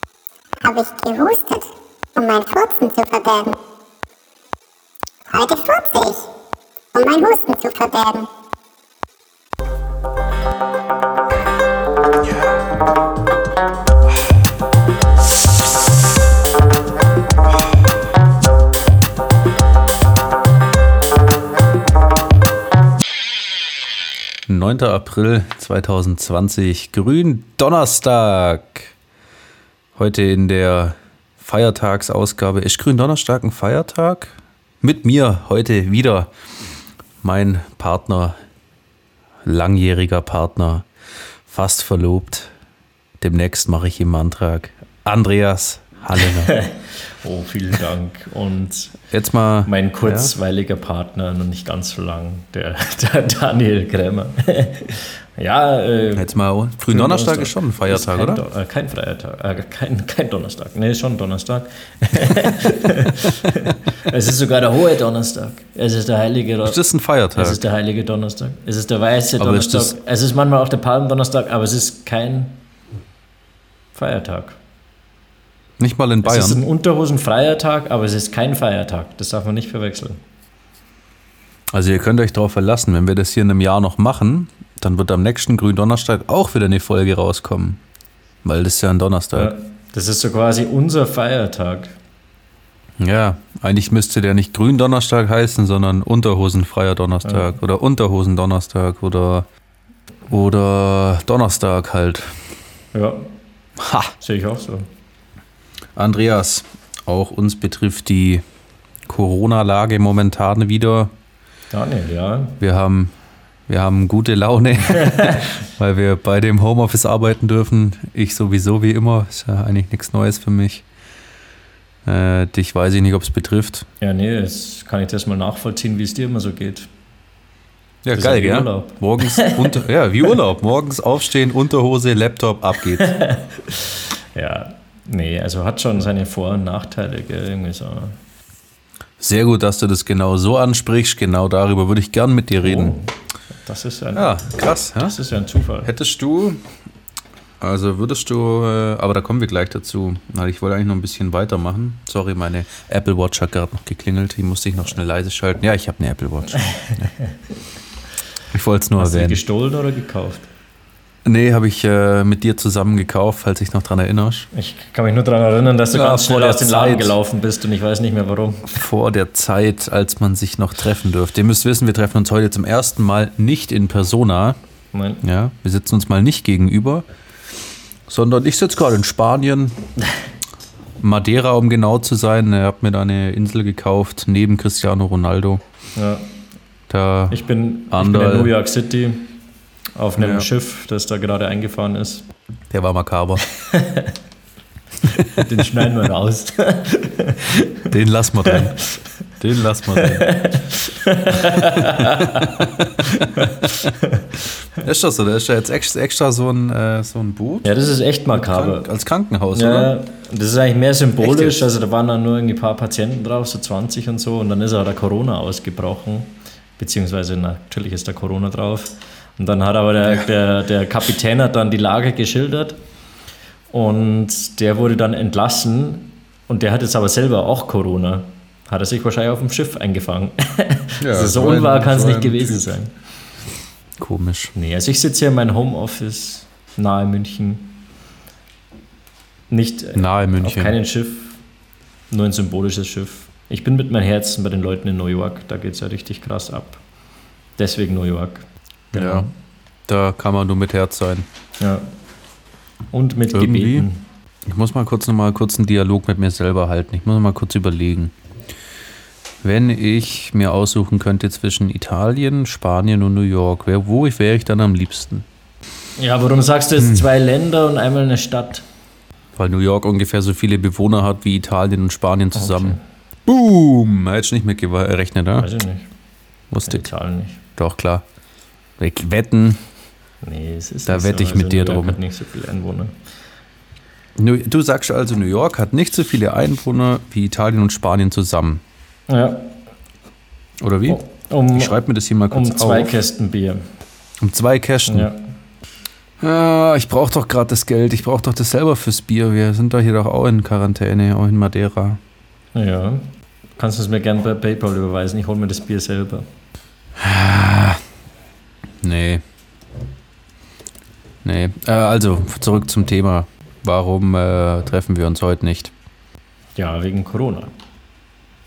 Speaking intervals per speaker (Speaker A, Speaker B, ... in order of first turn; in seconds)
Speaker A: 0.6-3.6, 5.3-6.3, 6.9-8.3
Speaker B: 24.5-28.9, 29.9-36.3, 37.2-38.4, 39.4-40.9, 41.5-42.5, 43.2-46.5, 49.1-50.3, 56.1-58.4, 66.6-67.6, 69.4-69.9, 75.8-76.6, 81.7-87.8, 88.4-89.5, 93.0-99.5, 100.3-102.4, 103.8-104.1, 106.0-108.4, 109.0-111.1, 112.6-113.1, 113.7-120.8, 122.0-123.9, 128.0-133.1, 139.2-143.0, 144.1-145.2, 145.8-146.6, 147.6-157.1, 158.5-159.4, 161.2-164.5, 165.9-167.2, 168.7-174.6, 175.2-177.0, 178.1-179.8, 181.0-185.6, 186.9-188.5, 190.2-190.5, 192.7-193.4, 197.9-198.8, 199.4-200.3, 201.3-202.7, 204.8-207.7, 208.3-209.9, 211.2-211.6, 231.0-232.6, 234.0-234.5, 239.9-240.8, 248.9-249.3, 249.9-251.3, 253.3-253.9, 254.4-258.1, 259.4-265.2, 266.8-267.1, 269.4-275.5, 276.5-276.9, 277.6-278.0, 278.8-279.6, 280.9-282.0, 284.2-288.6, 290.6-291.0, 291.5-293.0, 294.2-295.1, 296.2-302.0, 307.0-307.8, 308.8-309.2, 311.2-315.7
Speaker C: 46.2-49.0, 49.6-56.3, 56.9-66.8, 67.3-72.6, 73.9-74.6, 76.2-80.2, 89.3-92.0, 97.2-97.6, 102.9-103.3, 104.2-104.9, 111.7-112.6, 115.0-115.5, 124.0-126.9, 128.1-129.8, 133.0-138.2, 142.6-145.9, 156.6-157.3, 159.0-160.5, 164.5-168.8, 174.9-175.2, 185.9-186.3, 187.3-189.3, 189.9-192.2, 193.6-194.1, 195.2-197.9, 198.4-199.0, 199.9-204.3, 207.6-208.9, 209.5-222.8, 223.7-232.9, 234.5-237.8, 239.5-241.4, 242.1-246.8, 247.6-249.3, 251.6-251.9, 252.9-254.0, 266.0-268.6, 272.3-272.8, 275.4-275.9, 276.6-277.4, 280.2-282.9, 289.1-289.5, 290.9-293.6, 294.9-295.2, 302.5-306.2, 316.6-317.5